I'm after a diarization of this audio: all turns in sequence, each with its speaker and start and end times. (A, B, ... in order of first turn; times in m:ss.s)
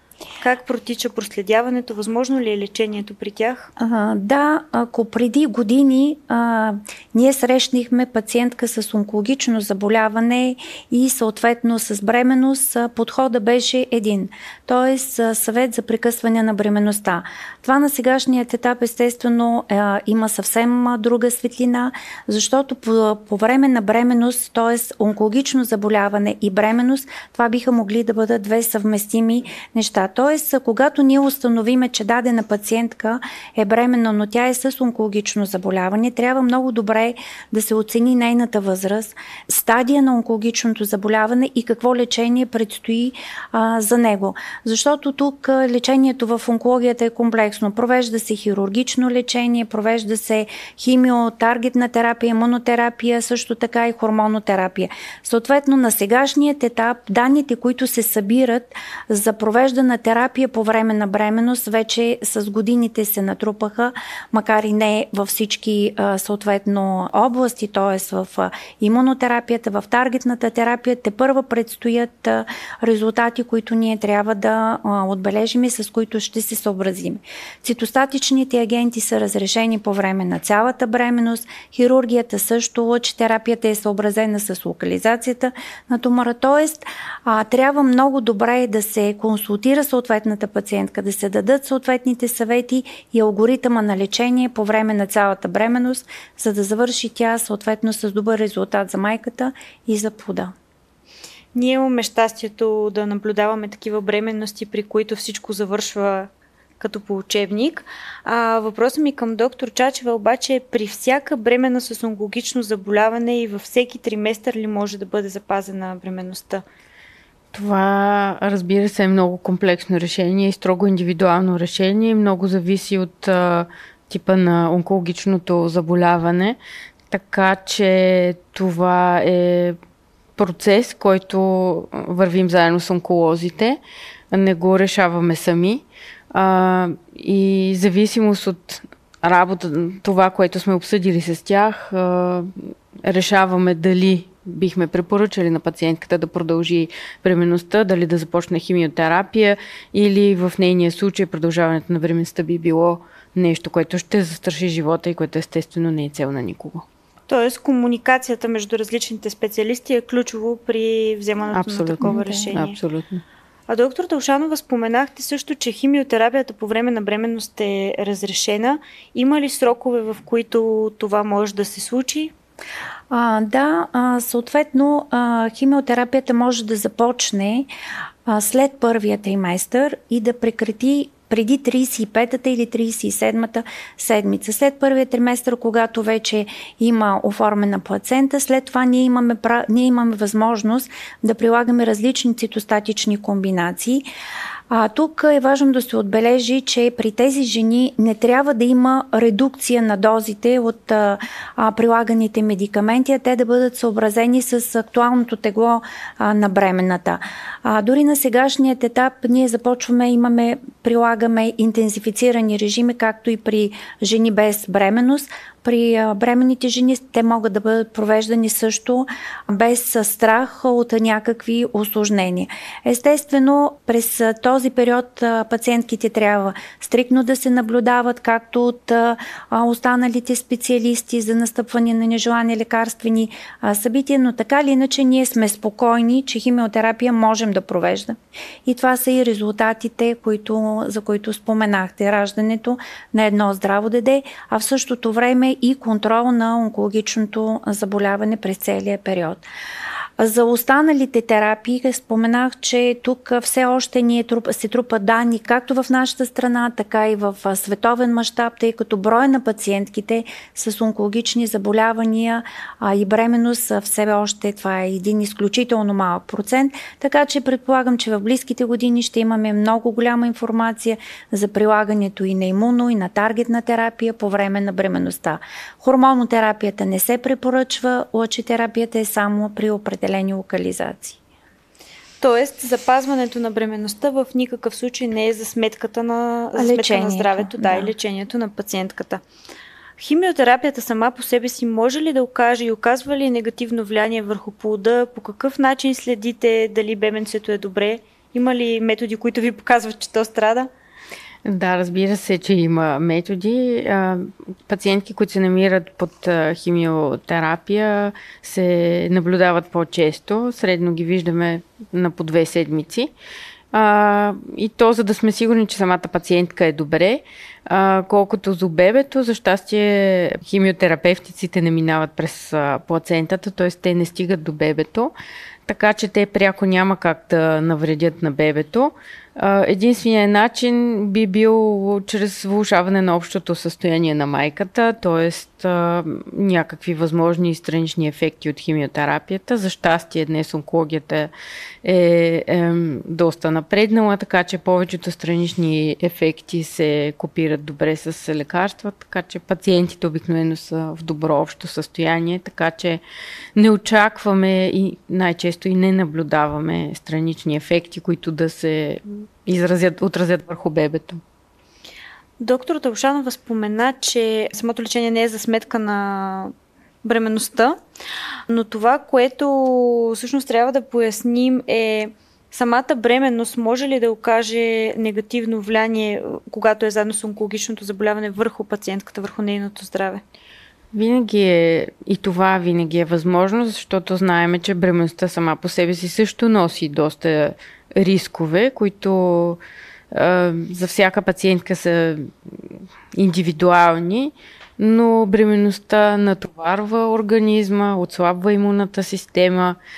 0:00.4-0:03.7 A
0:03.8-1:40.5 B
1:41.5-1:56.6 A
1:57.5-2:06.6 C
2:07.1-2:09.8 C
2:10.4-2:13.8 C
2:14.3-2:36.8 C
2:37.3-2:42.8 A
2:41.5-2:43.2 C
2:42.0-2:42.5 B
2:43.7-2:52.3 A
2:53.1-2:57.7 B
2:58.2-3:14.0 B
3:14.7-4:09.4 B
4:10.2-4:41.2 B
4:42.2-4:49.2 A
4:46.6-4:47.9 B
4:50.0-5:00.7 A
5:01.4-5:13.1 C
5:13.7-5:25.1 C
5:25.7-5:41.3 C
5:41.8-5:53.0 C
5:53.6-6:01.2 C
6:02.4-6:06.5 A
6:07.0-6:07.7 A
6:08.5-6:20.2 A
6:20.9-6:29.6 C
6:30.1-6:39.8 C